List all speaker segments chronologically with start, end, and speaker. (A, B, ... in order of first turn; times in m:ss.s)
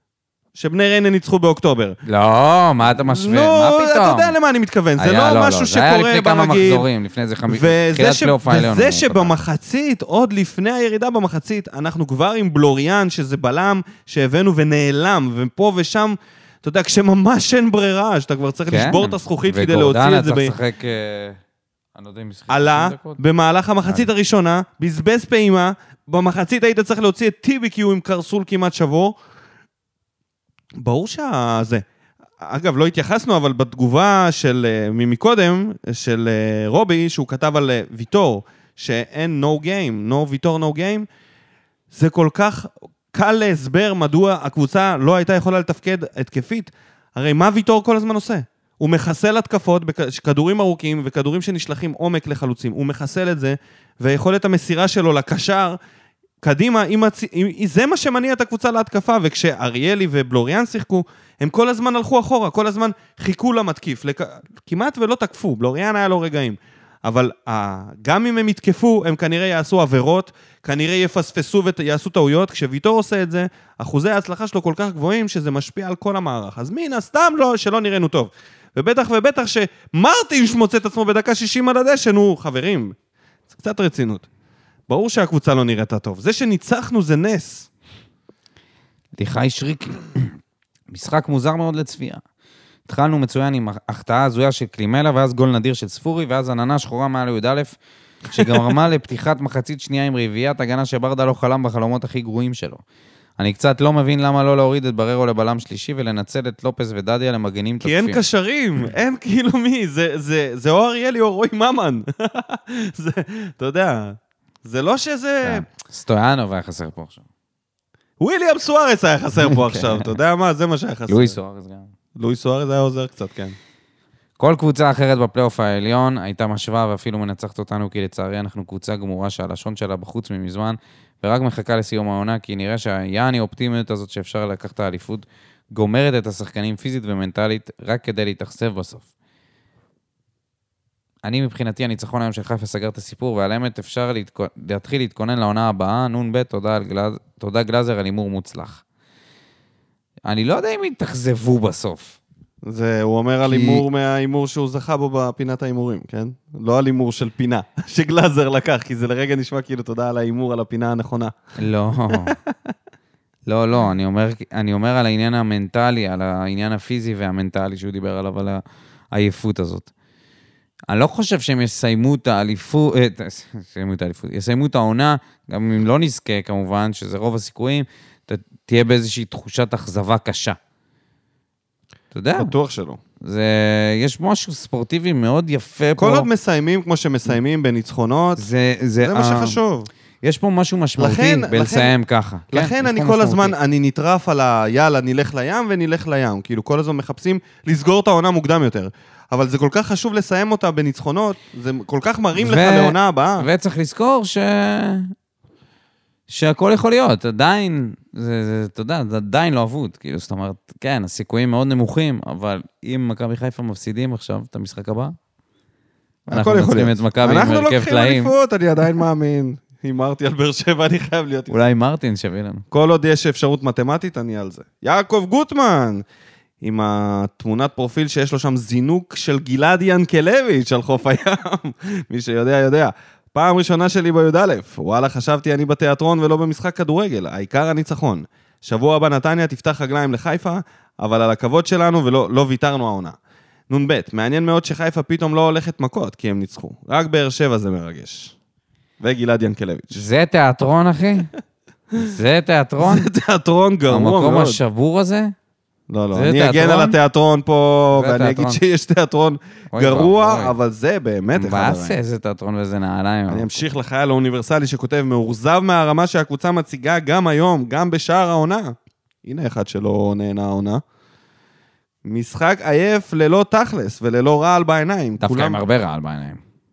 0:00.5-0:02.0 A
0:02.0-0:04.3 B
0:02.8-0:06.8 A
0:05.0-0:09.3 B
0:07.5-0:20.5 A
0:18.7-0:21.4 B
0:21.9-0:23.2 B
0:22.5-0:29.2 A
0:30.8-0:31.8 A
0:32.4-0:41.1 A
0:41.9-0:55.8 A
0:56.4-1:22.9 A
1:23.5-1:24.3 A
1:24.9-1:27.7 A
1:29.2-1:30.3 B
1:30.9-1:32.2 B
1:32.9-1:37.8 B
1:38.3-1:42.8 B
1:43.4-1:48.2 B
1:47.8-1:55.6 A
1:55.4-1:57.2 B
1:58.2-2:01.4 A
1:59.4-2:00.1 B
2:01.1-2:01.9 B
2:02.2-2:03.6 A
2:04.4-2:19.1 B
2:21.2-2:28.8 B
2:30.2-2:32.2 B
2:32.6-2:41.3 A
2:33.4-2:33.8 B
2:41.6-2:42.3 B
2:43.5-2:49.9 B
2:50.9-3:00.6 B
3:02.1-3:02.5 B
3:02.4-3:03.0 A
3:03.2-3:06.3 B
3:06.0-3:08.4 A
3:08.4-3:09.6 B
3:09.0-3:09.9 A
3:10.2-3:13.5 B
3:11.0-3:11.9 A
3:12.5-3:23.4 A
3:22.4-3:25.1 B
3:26.3-3:35.1 B
3:36.3-3:38.3 B
3:36.3-3:41.5 A
3:41.5-3:42.6 B
3:42.7-3:46.0 A
3:46.6-4:03.2 A
4:03.7-4:08.3 A
4:09.0-4:10.0 A
4:09.9-4:11.3 B
4:12.0-4:13.1 B
4:12.8-4:14.6 A
4:13.9-4:15.3 B
4:15.9-4:22.0 A
4:16.1-4:17.0 B
4:17.9-4:18.6 B
4:19.7-4:20.5 B
4:21.3-4:23.6 B
4:23.3-4:30.8 A
4:32.0-4:35.6 A
4:35.2-4:36.4 B